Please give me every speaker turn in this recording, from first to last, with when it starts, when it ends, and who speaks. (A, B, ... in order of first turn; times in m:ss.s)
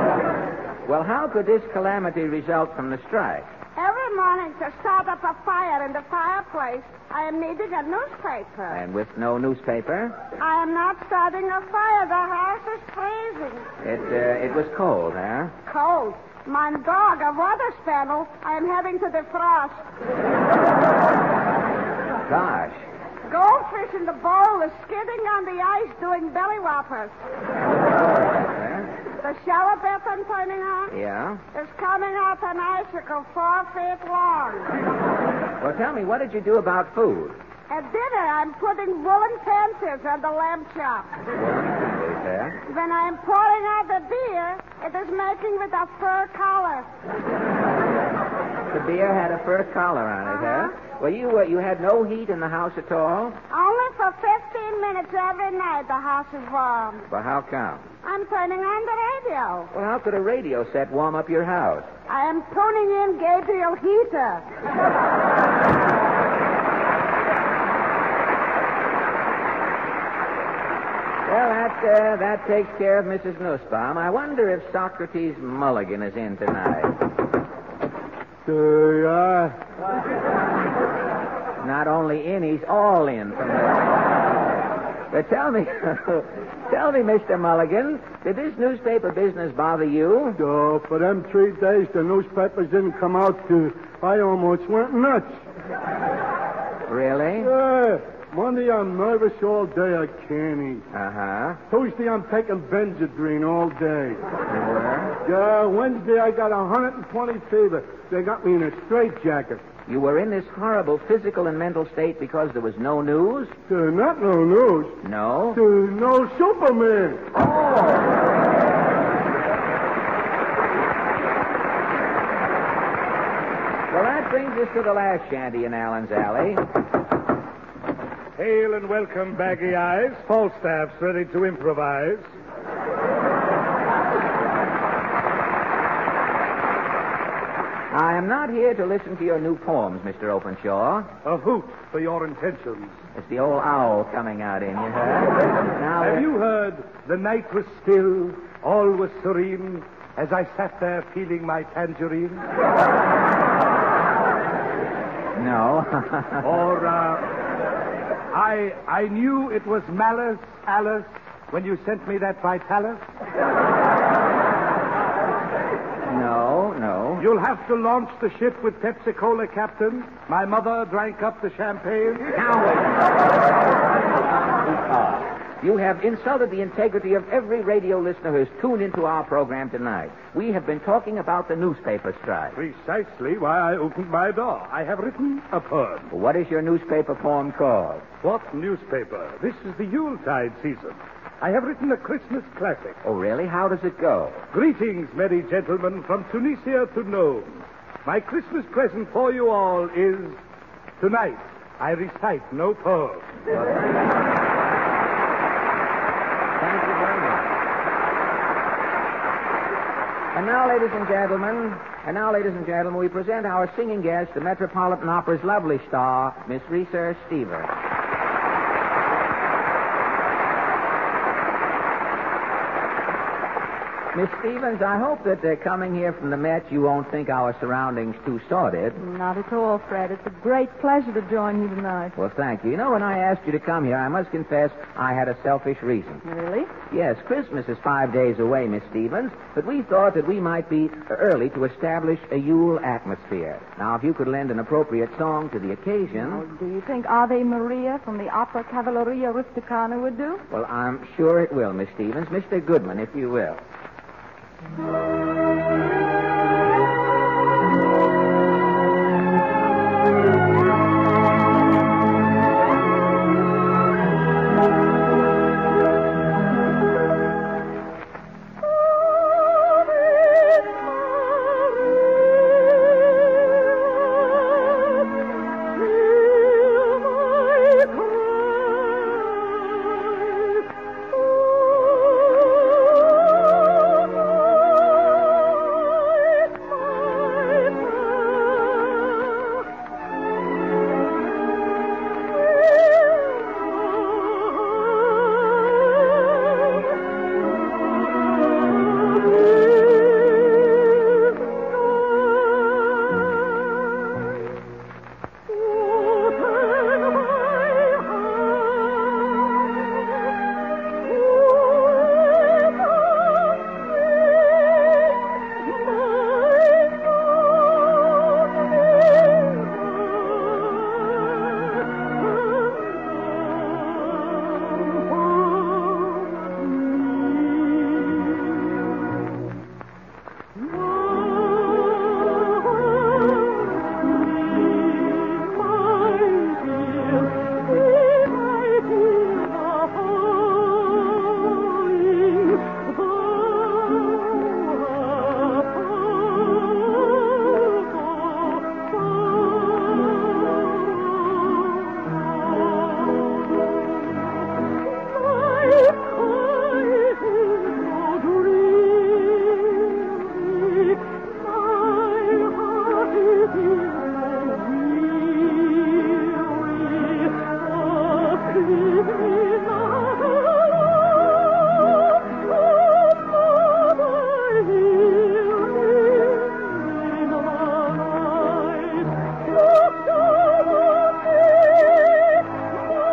0:00.9-0:03.5 A
0:03.8-0:08.8 B
0:08.7-0:10.2 A
0:10.4-0:13.7 B
0:13.8-0:15.5 A
0:15.7-0:19.8 B
0:22.2-0:22.8 A
0:23.3-0:27.1 B
0:27.7-0:28.9 A
0:29.2-0:31.0 B
0:30.9-0:31.4 A
0:31.5-0:34.7 B
0:35.6-0:37.4 A
0:37.7-0:41.1 B
0:41.4-0:42.6 A
0:42.7-0:46.9 B
0:48.7-0:53.4 A
0:53.5-0:57.0 B
0:57.1-0:57.9 A
0:58.0-0:59.7 B
0:59.7-1:01.9 A
1:02.1-1:04.4 B
1:11.3-1:16.9 A
1:18.5-1:19.6 C
1:21.6-1:23.9 A
1:25.1-1:30.4 A
1:30.4-1:35.3 C
1:36.9-1:37.5 A
1:37.4-1:40.8 C
1:40.9-1:41.6 A
1:41.7-1:44.2 C
1:44.5-1:45.2 A
1:45.2-1:49.6 C
1:49.9-1:53.5 A
1:53.7-1:55.0 C
1:55.0-1:55.6 A
1:55.5-1:57.2 C
1:57.3-1:58.2 A
2:03.9-2:06.6 A
2:08.4-2:12.3 D
2:17.9-2:21.1 A
2:21.2-2:23.0 D
2:23.2-2:26.3 A
2:26.0-2:32.4 D
2:35.4-2:36.5 A
2:36.4-2:37.3 D
2:38.3-2:43.0 D
2:46.1-2:47.3 A
2:47.2-2:52.3 D
2:52.3-2:53.3 A
2:54.2-3:02.6 A
3:02.6-3:06.1 D
3:06.1-3:08.0 A
3:08.2-3:13.0 D
3:13.0-3:14.4 A
3:14.5-3:20.4 D
3:21.0-3:23.3 D
3:26.6-3:27.5 A
3:30.3-3:37.7 A
3:44.1-3:49.0 A
3:49.0-3:52.1 E
3:52.2-3:56.2 A
3:56.2-3:56.7 E
3:56.9-4:06.4 A
4:06.3-4:10.4 E
4:10.5-4:13.6 A